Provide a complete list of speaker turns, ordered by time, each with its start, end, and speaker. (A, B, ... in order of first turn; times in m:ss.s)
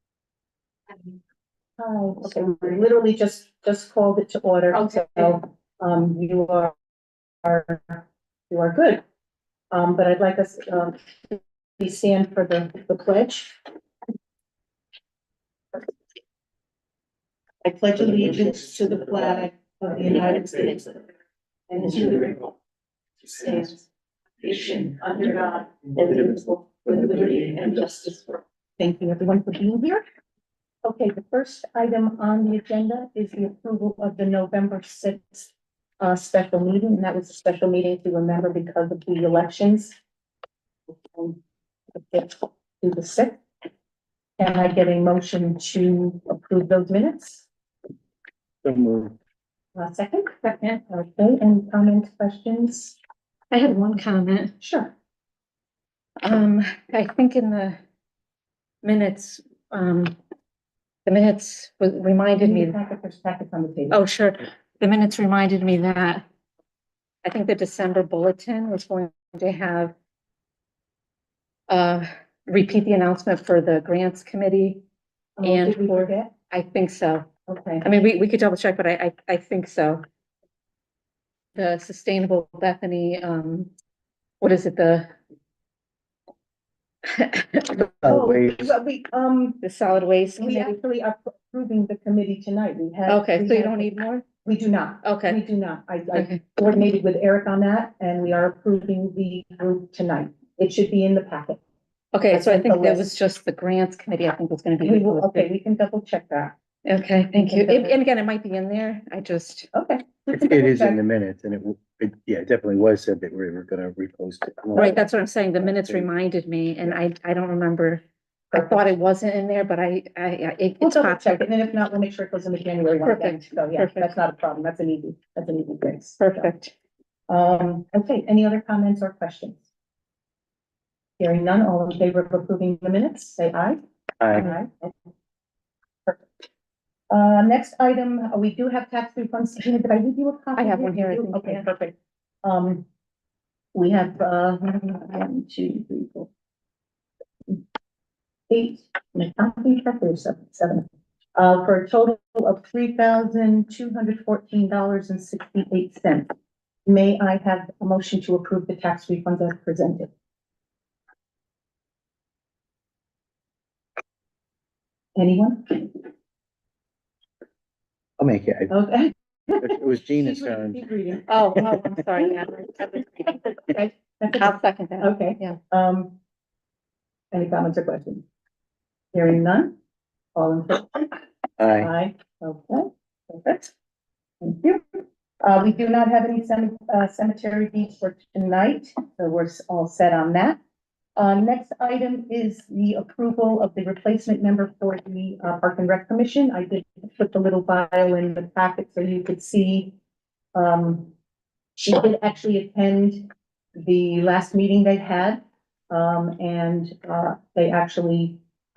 0:01.8-0:06.8 A
0:04.7-0:05.2 B
0:07.4-0:09.0 A
0:09.7-0:13.6 A
0:17.6-0:21.1 A
0:21.7-0:22.5 A
0:23.2-0:23.9 A
0:24.4-0:30.0 A
0:30.8-0:40.0 A
0:40.9-0:41.4 A
0:41.9-0:43.4 A
0:44.4-0:47.5 A
0:48.6-0:49.2 C
0:49.7-0:53.0 A
0:53.5-0:54.5 B
0:54.6-0:54.9 A
0:56.2-0:57.8 B
0:58.8-1:00.1 B
1:01.0-1:02.8 B
1:02.4-1:04.0 A
1:03.9-1:06.2 B
1:07.2-1:09.9 B
1:11.7-1:14.8 B
1:15.4-1:16.3 A
1:15.4-1:17.3 B
1:17.5-1:17.9 A
1:17.8-1:20.0 B
1:21.6-1:23.7 B
1:24.4-1:25.1 B
1:27.1-1:27.9 B
1:28.0-1:28.7 C
1:28.0-1:29.6 A
1:29.6-1:30.7 B
1:30.4-1:33.9 A
1:33.1-1:34.2 B
1:34.4-1:41.6 A
1:35.0-1:35.4 B
1:36.1-1:36.4 B
1:42.1-1:45.5 B
1:42.3-1:43.1 A
1:44.8-1:46.6 A
1:46.8-1:49.7 B
1:47.3-1:48.0 A
1:49.7-1:51.0 A
1:50.3-1:56.1 C
1:54.8-2:01.4 B
1:58.5-1:58.9 A
2:00.8-2:06.5 A
2:02.9-2:04.1 B
2:06.2-2:06.7 B
2:07.3-2:09.6 A
2:11.2-2:13.8 A
2:14.2-2:14.5 C
2:14.3-2:14.9 A
2:17.1-2:22.8 A
2:20.6-2:21.7 B
2:23.7-2:26.3 A
2:28.5-2:36.3 A
2:36.8-2:40.1 A
2:45.2-2:46.0 A
2:48.2-2:48.7 C
2:48.7-2:52.3 A
2:49.6-2:50.8 C
2:51.3-2:53.8 B
2:53.7-2:56.2 A
2:54.3-2:55.6 B
2:57.3-2:58.2 A
2:59.1-2:59.8 A
3:00.3-3:01.1 A
3:01.6-3:01.9 C
3:01.8-3:03.7 A
3:04.4-3:10.6 A
3:11.2-3:20.0 A
3:20.5-3:21.1 A
3:21.8-3:28.4 A